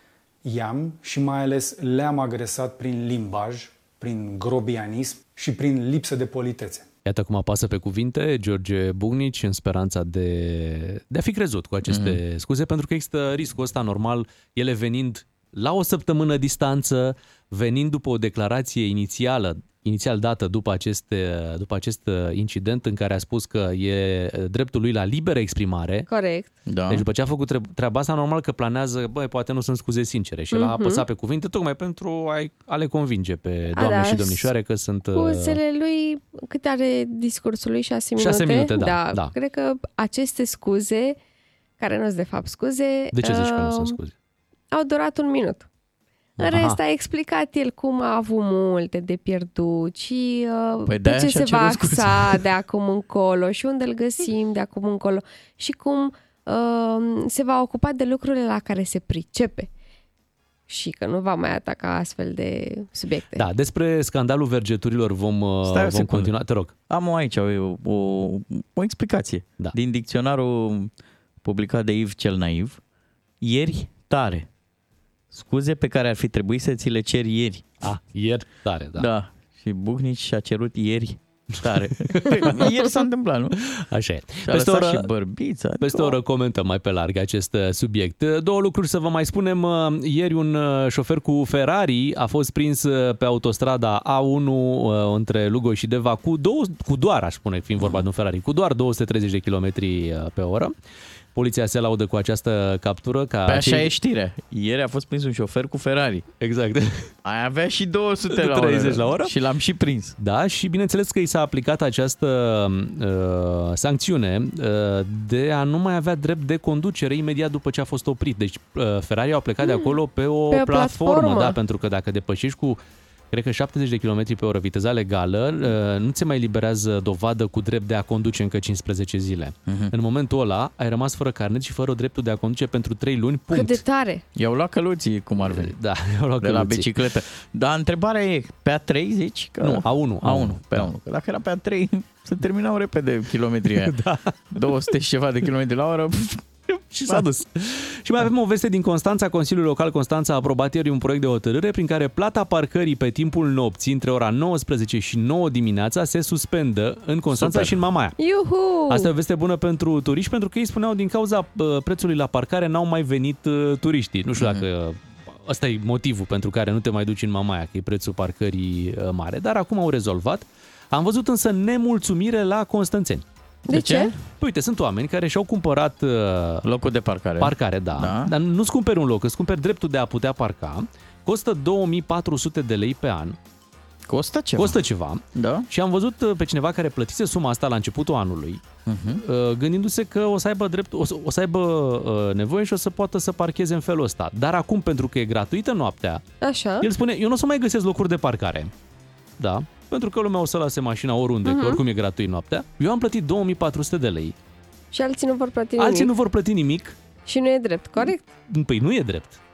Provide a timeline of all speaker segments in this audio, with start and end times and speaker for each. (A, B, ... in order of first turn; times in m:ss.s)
0:00.4-0:06.9 A
0:07.0-0:26.1 B
0:11.9-0:12.2 C
0:26.1-0:26.5 D
0:26.7-0:27.0 C
0:26.9-0:35.6 B
0:30.5-0:31.0 D
0:33.7-0:34.5 D
0:35.1-0:41.2 D
0:38.2-0:39.3 B
0:41.8-0:44.0 D
0:43.1-0:44.1 B
0:44.7-0:45.7 D
0:46.4-0:46.8 B
0:46.4-0:59.7 D
0:50.8-0:52.4 C
1:00.7-1:03.4 D
1:03.4-1:06.7 B
1:05.6-1:06.3 C
1:06.9-1:10.9 C
1:11.4-1:12.8 C
1:13.4-1:14.5 C
1:15.3-1:17.7 C
1:17.8-1:19.1 B
1:19.0-1:23.6 C
1:22.1-1:22.7 B
1:23.7-1:25.1 B
1:24.4-1:26.1 C
1:25.8-1:40.7 B
1:41.3-1:43.9 B
1:43.4-1:46.2 C
1:46.4-1:47.1 B
1:47.2-1:50.2 C
1:48.3-1:49.3 B
1:50.2-2:02.8 B
1:59.6-1:59.9 D
2:00.5-2:01.6 D
2:03.3-2:13.8 B
2:09.6-2:09.9 C
2:13.5-2:14.2 D
2:14.4-2:15.7 C
2:15.4-2:16.9 B
2:16.4-2:23.9 C
2:19.6-2:20.9 B
2:23.8-2:24.3 B
2:24.5-2:26.5 C
2:26.9-2:38.2 B
2:37.3-2:37.7 C
2:38.2-2:39.1 D
2:38.9-2:53.2 B
2:44.4-2:44.6 C
2:53.7-2:54.1 D
2:53.7-2:54.2 C
2:54.4-2:56.6 B
2:56.6-2:58.3 C
2:57.4-3:03.4 B
3:04.1-3:04.8 C
3:04.6-3:08.6 B
3:05.3-3:05.7 C
3:08.8-3:09.2 C
3:09.2-3:16.2 B
3:16.4-3:16.9 D
3:16.8-3:18.7 B
3:19.4-3:24.3 B
3:21.4-3:21.8 D
3:24.9-3:26.1 D
3:25.8-3:27.0 B
3:27.2-3:28.2 D
3:28.5-3:29.4 B